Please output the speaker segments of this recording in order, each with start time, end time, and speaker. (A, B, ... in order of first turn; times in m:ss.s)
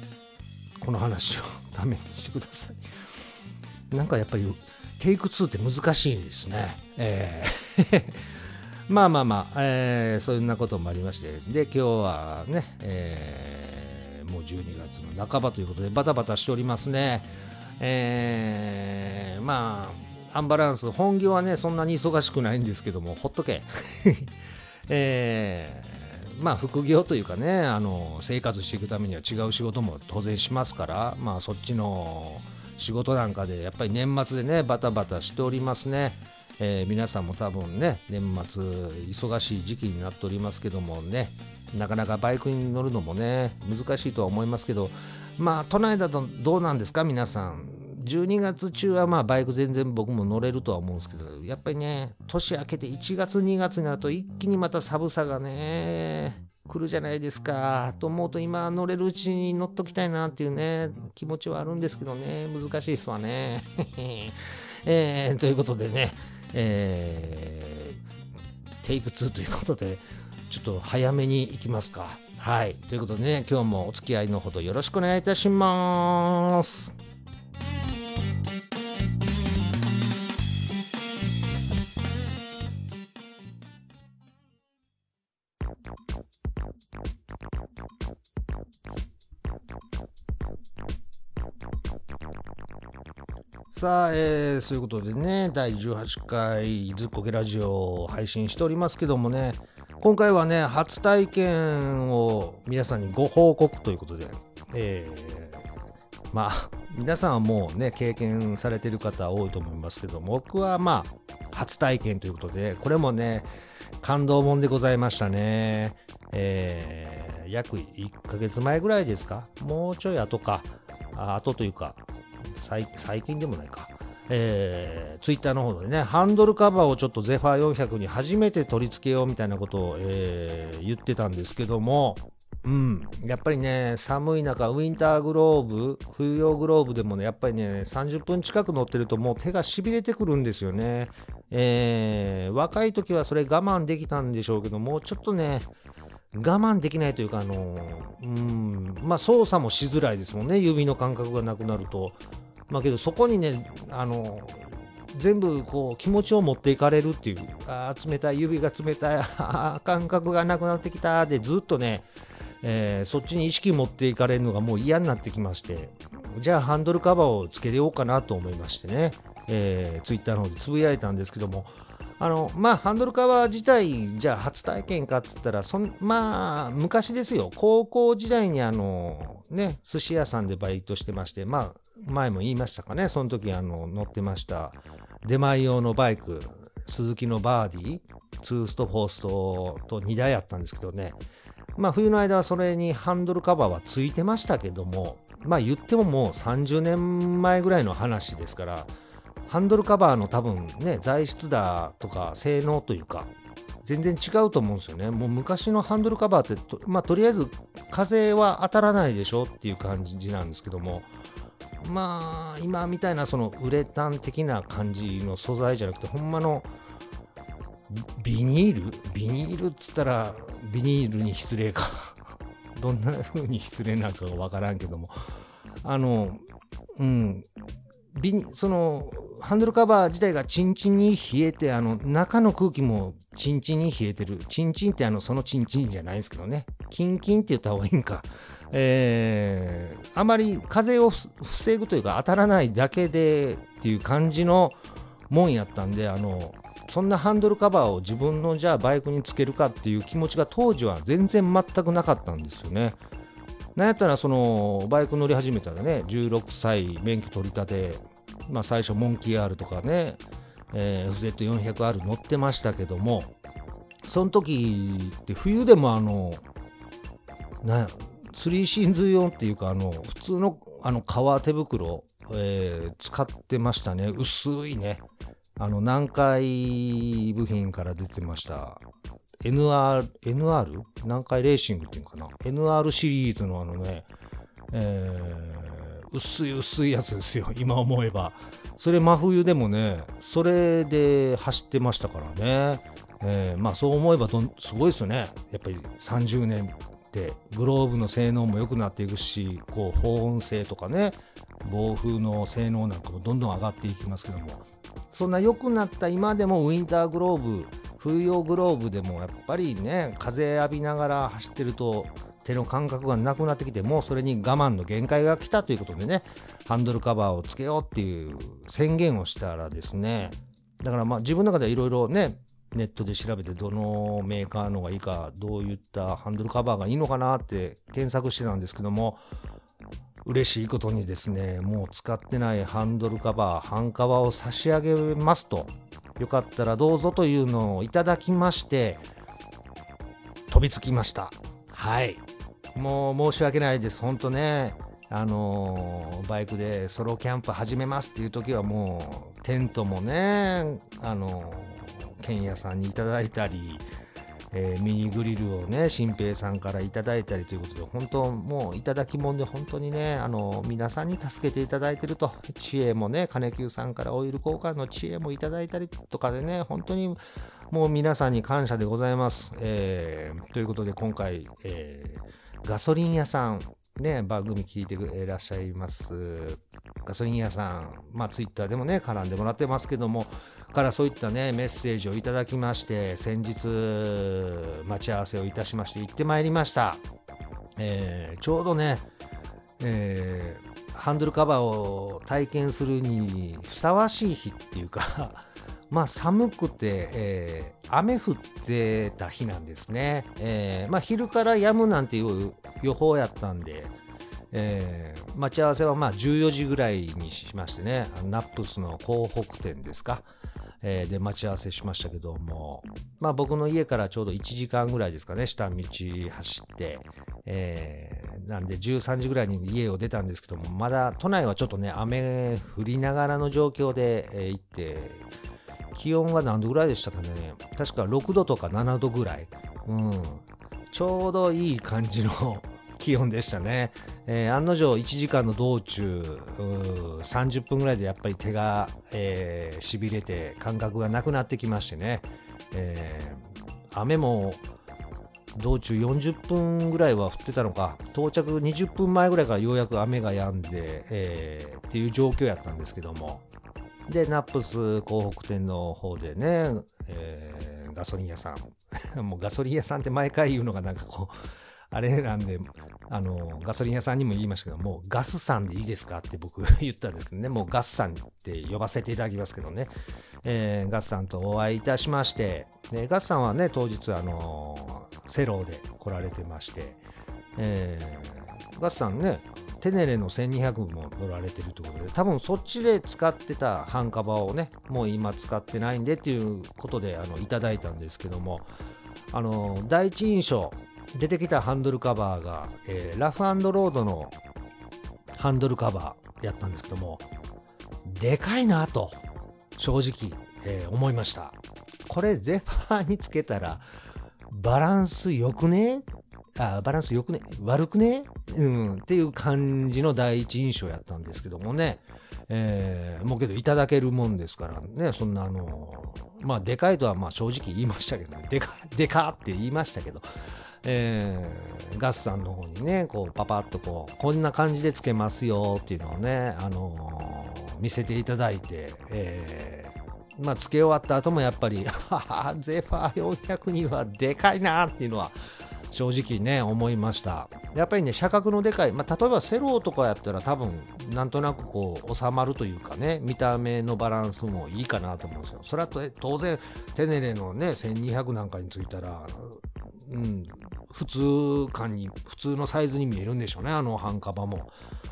0:00.8-0:02.8 A
0:03.9-0:08.3 A
0:08.9-0:24.3 A
0:24.9-1:08.0 A
1:08.8-1:16.9 A
1:33.7-1:45.6 A
1:46.3-1:53.5 A
1:54.0-2:25.7 A
2:26.3-2:42.1 A
2:42.6-3:11.2 A
3:11.8-3:18.9 A
3:19.4-3:23.3 A
3:23.8-3:31.1 A
3:31.8-3:36.7 A
3:37.9-3:45.2 A
3:45.8-3:46.4 A
3:47.0-3:47.4 A
3:48.1-4:04.8 A
4:05.3-4:13.0 A
4:13.8-4:23.3 A
4:24.0-4:26.4 A
4:27.6-4:35.0 A
4:35.6-4:38.8 A
4:39.4-4:44.1 A
4:44.7-5:29.2 A
5:30.2-5:39.1 A
5:40.5-5:42.2 A
5:42.7-5:53.9 A
5:54.5-6:27.0 A
6:27.8-6:29.1 A
6:29.8-6:43.9 A
6:44.5-6:50.3 A
6:50.8-7:05.3 A
7:05.9-7:24.6 A
7:25.5-7:33.4 A
7:34.1-7:41.3 A
7:41.9-7:57.0 A
7:57.6-8:08.7 A
8:09.3-8:14.3 A
8:15.3-8:17.2 A
8:18.0-8:19.2 A
8:19.8-8:23.8 A
8:24.5-8:26.0 A
8:26.6-8:40.3 A
8:40.8-8:55.4 A
8:55.9-9:14.8 A